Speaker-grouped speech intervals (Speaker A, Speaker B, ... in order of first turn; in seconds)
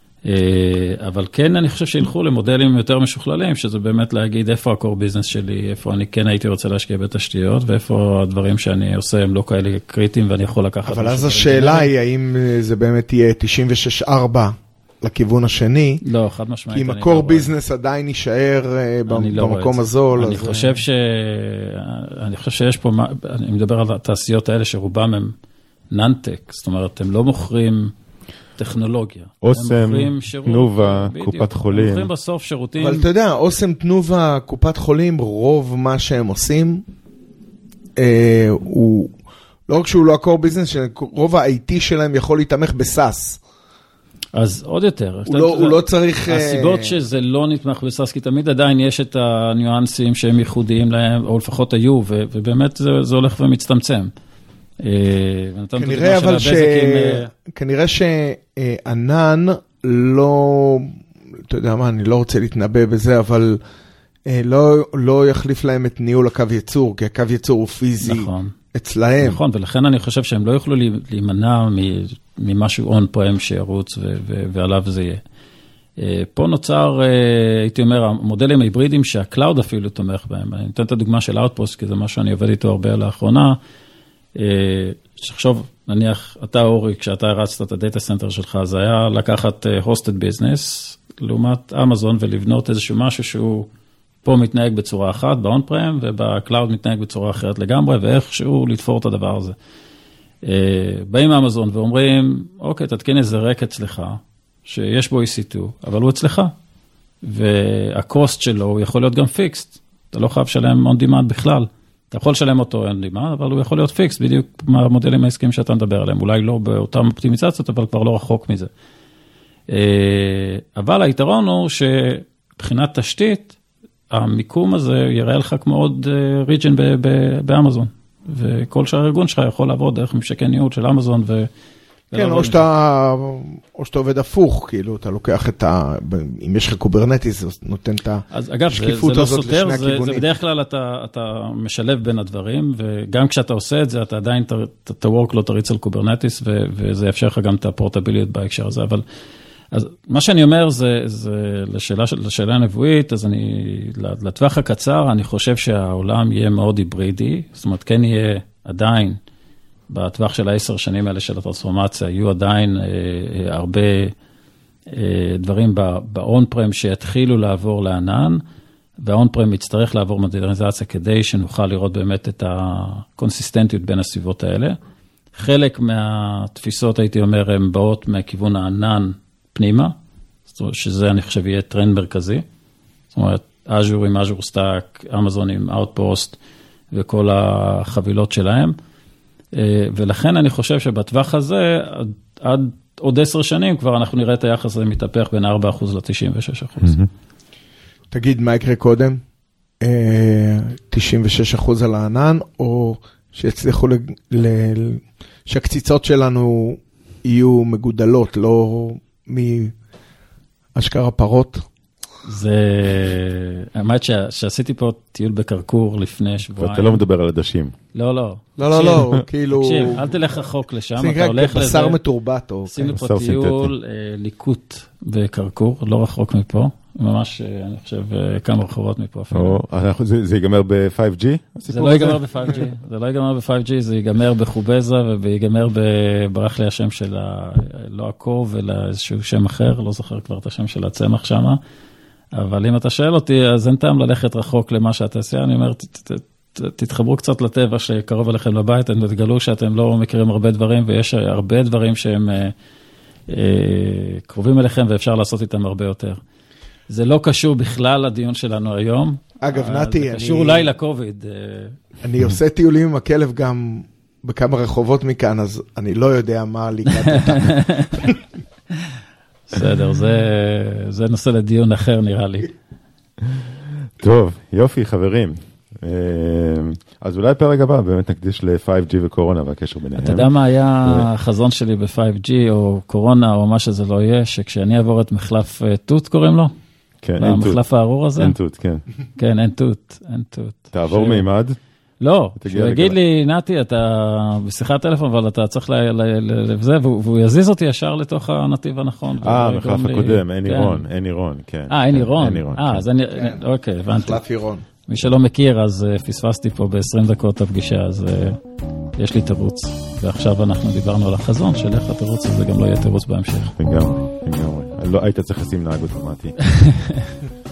Speaker A: 0.2-11.9, 16.0-17.5, 19.1-25.3, 25.9-27.9, 28.6-33.0, 44.3-54.1, 54.8-57.3, 68.0-68.5, 69.2-75.2, 76.0-83.6, 84.4-93.7, 94.2-99.5, 100.4-106.5, 107.2-118.7, 119.7-123.6, 124.1-131.5, 132.1-132.7, 138.3-149.1, 149.7-159.2, 159.9-164.1, 164.9-168.4, 169.0-174.8, 175.3-179.9, 180.5-182.4, 183.1-186.4, 186.9-188.8, 189.5-197.0, 212.2-217.0, 217.9-222.0, 222.7-229.6, 231.7-241.6, 242.3-252.5, 253.3-256.2, 256.9-261.8, 267.0-268.0, 269.5-272.5, 280.0-286.5, 287.2-288.4, 289.2-291.2, 292.0-300.8, 301.7-304.2, 304.9-308.4, 309.0-313.6, 316.4-317.1
Speaker B: 10.8-16.0, 16.7-20.8, 32.8-36.8, 38.0-39.1, 39.7-43.4, 45.3-47.0, 55.8-61.0, 61.5-63.6, 64.3-69.4, 132.1-140.2, 198.1-199.2, 199.8-209.7, 210.8-211.7, 218.6-220.4, 221.0-222.9, 259.4-260.7, 262.0-268.2, 303.1-304.6
Speaker C: 29.4-32.1, 196.8-197.1, 216.6-217.8, 222.9-223.7, 229.3-232.2, 273.2-280.3, 287.0-287.6, 288.2-288.9, 290.7-291.6, 292.4-293.0, 299.2-302.9, 313.6-316.4